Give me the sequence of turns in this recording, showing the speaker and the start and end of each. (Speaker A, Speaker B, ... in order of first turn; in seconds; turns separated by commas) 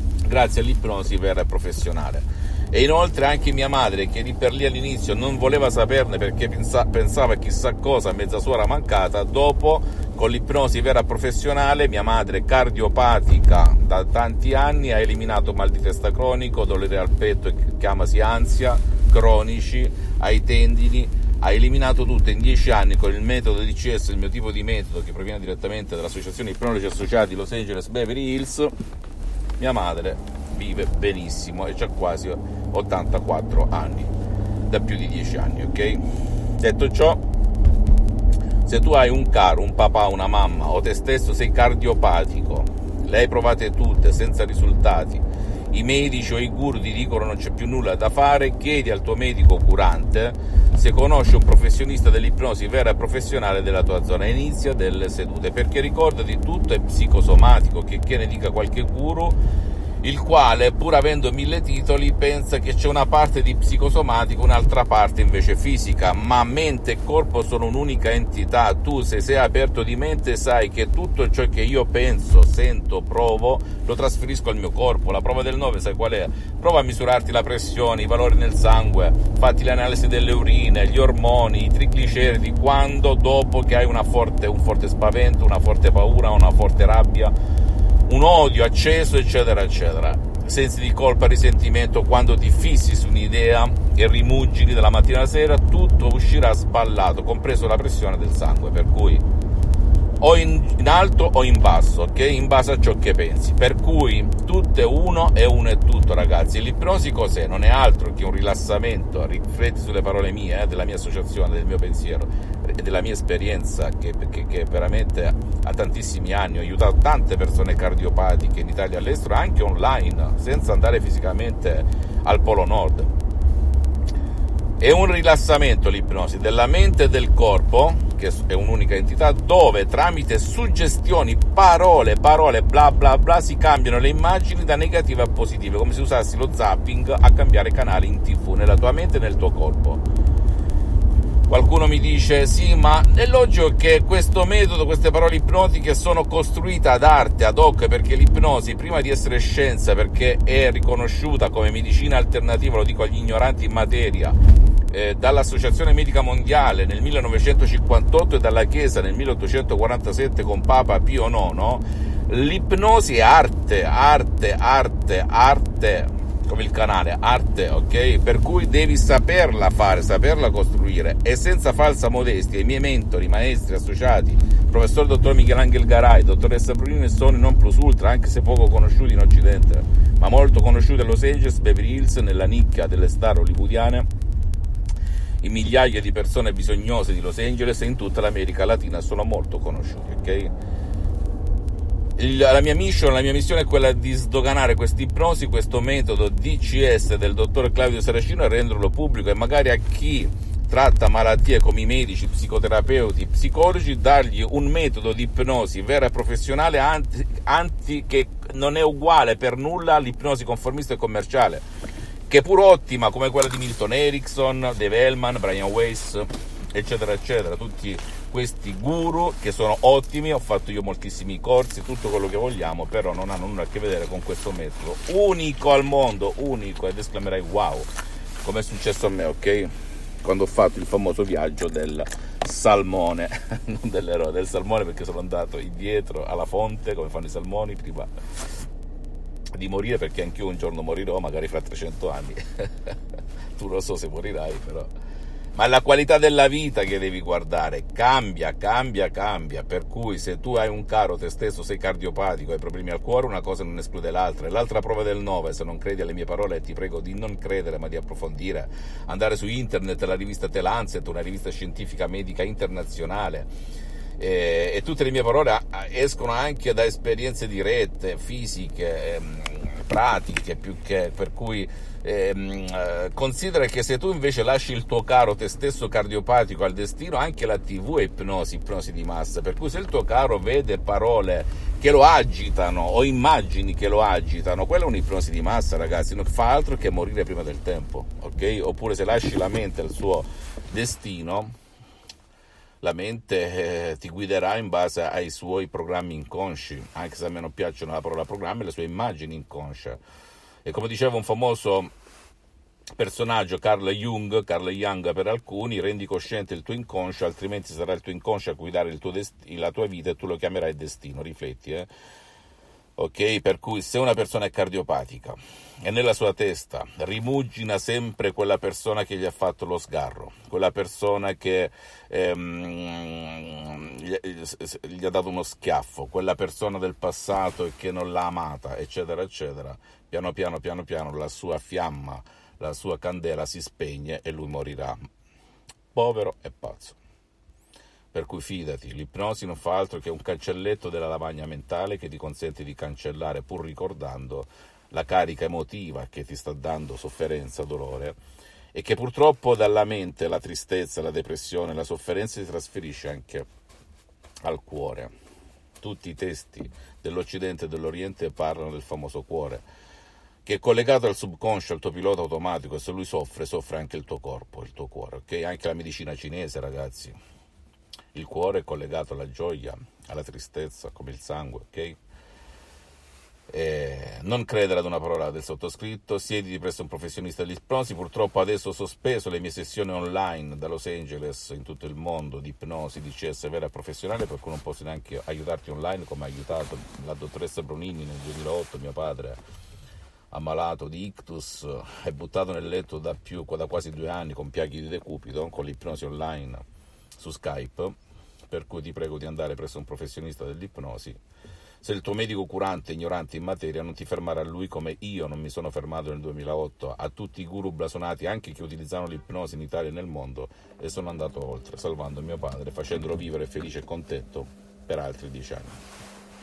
Speaker A: 0.2-28.8, Speaker A: 29.6-34.1, Speaker A: 34.7-37.2, Speaker A: 38.6-59.4, Speaker A: 60.0-87.3, Speaker A: 88.1-99.2, Speaker A: 100.2-123.1, Speaker A: 124.8-140.0, Speaker A: 141.5-154.4, Speaker A: 154.9-184.1, Speaker A: 185.4-190.5, Speaker A: 192.2-211.6, Speaker A: 212.3-227.9, Speaker A: 228.4-238.1, Speaker A: 239.5-243.0, Speaker A: 243.5-244.9, Speaker A: 245.5-263.5, Speaker A: 264.2-291.5, Speaker A: 292.8-300.0, Speaker A: 300.6-301.9, Speaker A: 302.9-311.9, Speaker A: 313.0-335.0, Speaker A: 335.9-337.0, Speaker A: 338.1-348.1, Speaker A: 348.7-353.5, Speaker A: 354.4-355.1, Speaker A: 355.8-359.6, Speaker A: 360.4-367.1, Speaker A: 368.1-372.0, Speaker A: 373.5-389.4, Speaker A: 390.3-396.6, Speaker A: 397.2-398.0, Speaker A: 398.5-401.2, Speaker A: 401.8-415.8